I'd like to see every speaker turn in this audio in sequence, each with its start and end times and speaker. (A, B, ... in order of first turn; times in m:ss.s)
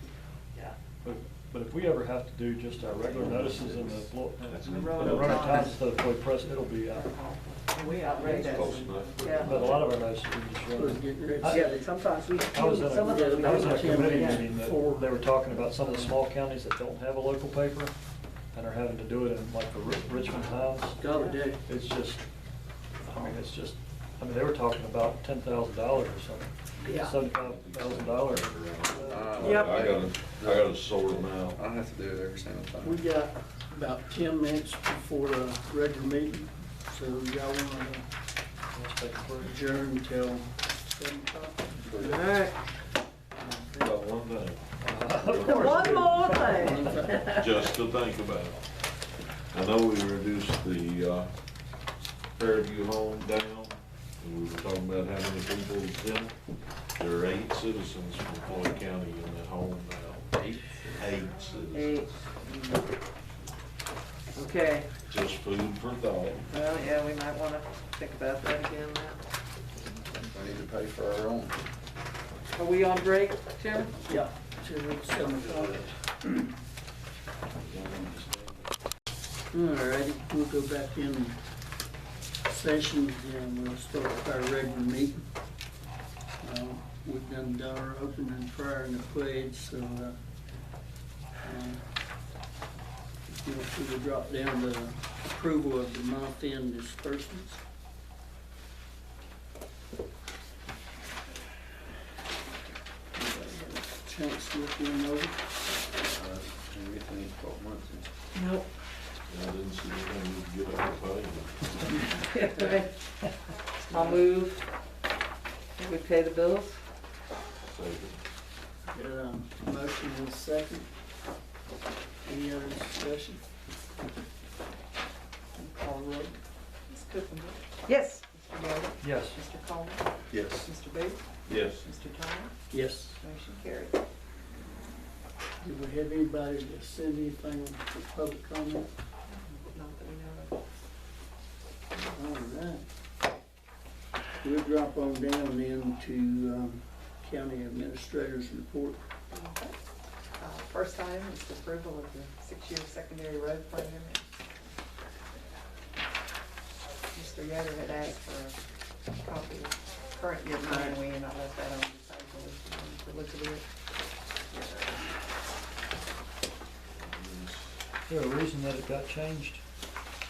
0:01.0-0:07.1 A
0:03.0-0:05.8 B
0:04.7-0:05.8 C
0:05.1-0:05.6 D
0:06.9-0:09.7 C
0:07.9-0:08.6 D
0:08.4-0:09.9 B
0:09.2-0:09.5 D
0:09.4-0:11.8 A
0:10.7-0:11.8 E
0:11.4-0:14.5 D
0:12.5-0:17.9 A
0:13.0-0:16.1 E
0:18.5-0:21.0 A
0:21.0-0:21.6 E
0:21.0-0:21.4 D
0:21.6-0:22.2 A
0:23.1-0:29.5 A
0:27.2-0:31.6 B
0:29.2-0:30.6 F
0:29.4-0:30.2 D
0:31.6-0:32.8 F
0:32.8-0:38.0 E
0:38.7-0:39.5 A
0:39.4-0:42.3 E
0:41.9-0:42.6 D
0:43.4-0:43.8 E
0:43.7-0:46.3 B
0:44.8-0:46.4 A
0:45.4-0:47.5 D
0:45.4-0:47.3 E
0:47.2-0:48.8 B
0:49.5-0:51.3 B
0:52.4-0:56.4 B
0:57.0-1:01.9 B
1:01.7-1:02.2 D
1:04.4-1:04.9 D
1:05.1-1:06.5 B
1:06.5-1:09.2 D
1:10.8-1:11.5 F
1:12.6-1:13.9 D
1:14.0-1:15.9 E
1:15.5-1:15.8 B
1:17.6-1:18.6 B
1:19.5-1:21.4 E
1:22.5-1:25.2 E
1:26.4-1:30.2 E
1:31.4-1:31.8 E
1:33.3-1:37.6 E
1:43.2-1:45.5 E
1:48.3-1:48.6 D
1:49.3-1:52.0 B
1:52.3-1:52.9 D
1:53.9-1:54.6 D
1:55.8-1:56.8 D
1:57.6-1:58.2 B
1:58.9-2:00.9 E
2:02.2-2:03.4 E
2:05.6-2:12.5 C
2:07.9-2:08.2 D
2:09.0-2:09.4 A
2:10.3-2:10.6 B
2:11.5-2:11.9 B
2:12.7-2:13.2 E
2:13.2-2:14.0 C
2:15.6-2:18.9 E
2:19.3-2:20.6 C
2:21.9-2:22.8 E
2:24.4-2:29.0 E
2:29.3-2:29.8 C
2:30.4-2:34.3 C
2:37.1-2:38.6 C
2:39.1-2:43.6 C
2:40.7-2:41.0 D
2:44.5-2:45.0 C
2:47.0-2:47.6 B
2:48.1-2:49.6 A